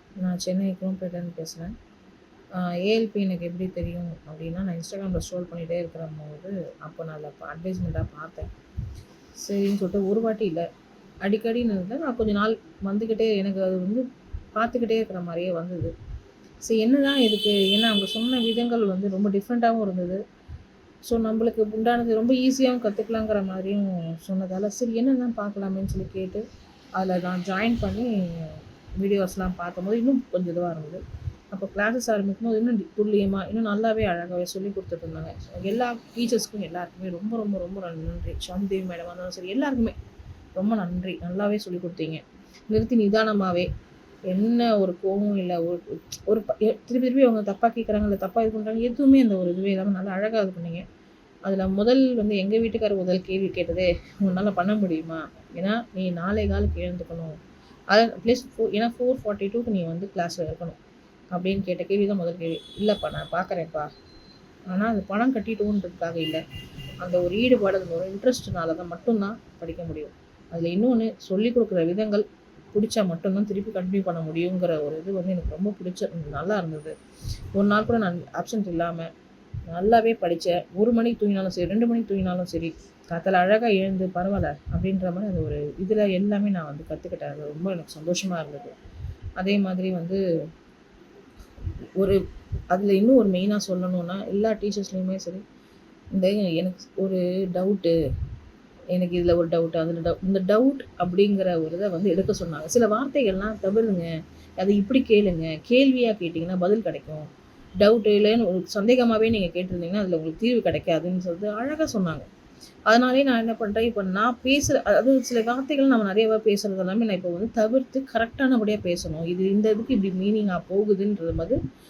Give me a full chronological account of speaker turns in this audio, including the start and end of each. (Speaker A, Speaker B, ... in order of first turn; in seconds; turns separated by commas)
Speaker A: 0.2-1.7, Speaker A: 2.5-8.5, Speaker A: 9.4-10.7, Speaker A: 11.2-14.1, Speaker A: 14.6-15.9, Speaker A: 16.6-20.2, Speaker A: 21.1-26.4, Speaker A: 27.0-31.0, Speaker A: 31.5-40.0, Speaker A: 40.6-43.7, Speaker A: 44.3-50.9, Speaker A: 51.5-57.4, Speaker A: 57.9-60.8, Speaker A: 61.3-63.9, Speaker A: 64.7-66.4, Speaker A: 67.0-77.0, Speaker A: 77.6-79.1, Speaker A: 79.7-88.7, Speaker A: 89.4-90.2, Speaker A: 92.7-95.4, Speaker A: 96.1-98.0, Speaker A: 98.9-107.3, Speaker A: 107.8-112.3, Speaker A: 112.9-121.6